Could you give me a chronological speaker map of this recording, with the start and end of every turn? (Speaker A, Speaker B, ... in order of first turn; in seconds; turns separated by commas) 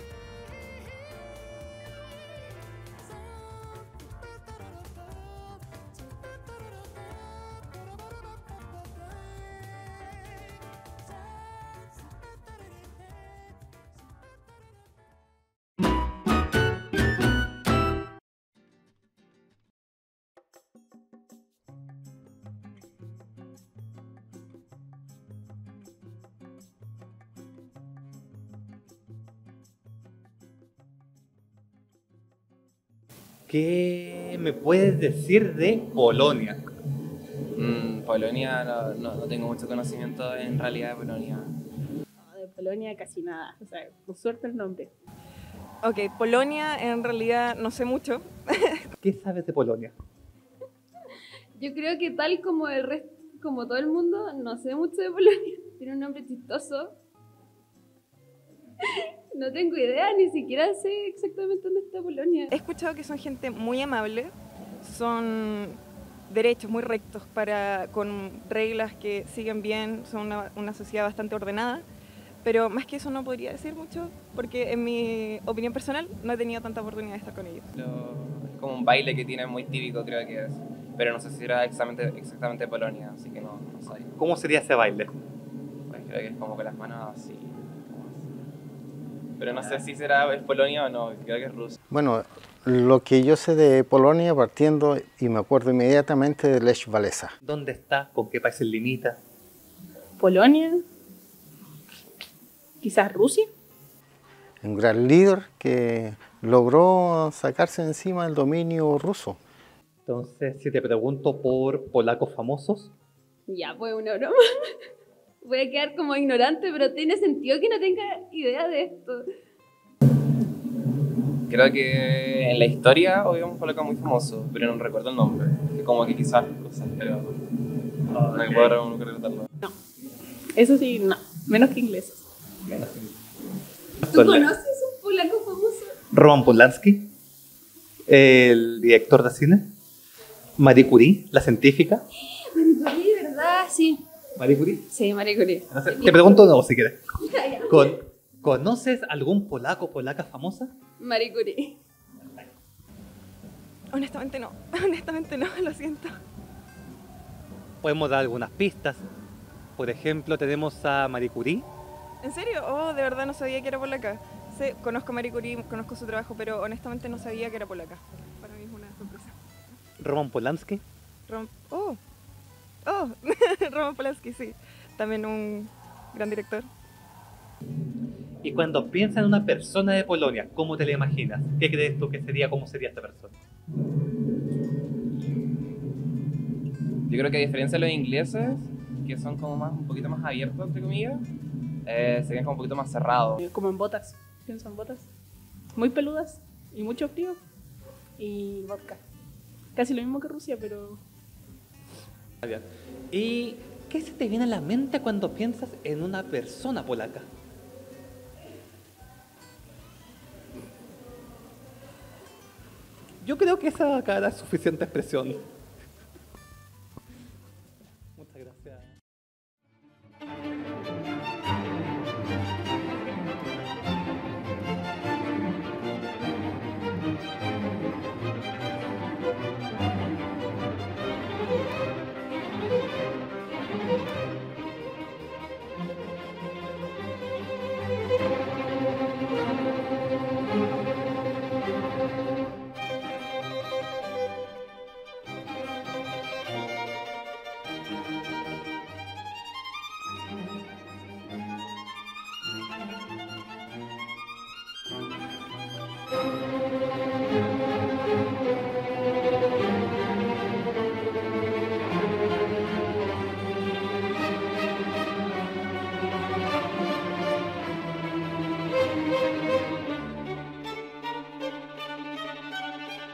Speaker A: 33.5-36.6, Speaker B: 37.5-41.5, Speaker C: 42.2-44.9, Speaker D: 45.8-48.9, Speaker A: 49.0-49.9, Speaker E: 51.6-57.0, Speaker E: 58.8-62.5, Speaker D: 62.5-71.9, Speaker D: 72.4-77.7, Speaker B: 77.7-84.1, Speaker A: 84.2-85.2, Speaker B: 85.9-88.3, Speaker B: 89.4-91.8, Speaker F: 91.9-97.3, Speaker A: 97.4-99.2, Speaker C: 100.2-100.8, Speaker C: 102.8-103.5, Speaker F: 104.6-109.4, Speaker A: 110.1-112.9, Speaker E: 113.5-114.8, Speaker E: 115.4-119.2, Speaker B: 121.5-127.4, Speaker A: 128.1-128.7, Speaker B: 128.2-129.5, Speaker C: 130.6-132.3, Speaker A: 132.6-133.2, Speaker A: 134.0-134.5, Speaker E: 134.1-136.0, Speaker A: 136.1-137.1, Speaker A: 138.1-139.7, Speaker A: 140.6-142.1, Speaker E: 142.3-144.0, Speaker A: 144.4-144.9, Speaker E: 144.9-146.4, Speaker A: 145.7-147.0, Speaker E: 147.3-148.0, Speaker A: 147.7-150.8, Speaker E: 151.0-151.8, Speaker D: 153.9-156.2, Speaker A: 157.8-159.1, Speaker A: 159.8-161.7, Speaker D: 162.2-169.4, Speaker A: 170.0-170.8, Speaker D: 171.3-172.0, Speaker D: 172.8-176.7, Speaker A: 178.4-183.4, Speaker B: 187.1-191.2, Speaker B: 191.9-193.4, Speaker C: 193.4-195.1, Speaker C: 195.8-197.4, Speaker C: 198.2-199.0, Speaker C: 199.8-201.0, Speaker A: 202.4-207.3, Speaker A: 213.2-215.4, Speaker A: 218.2-218.9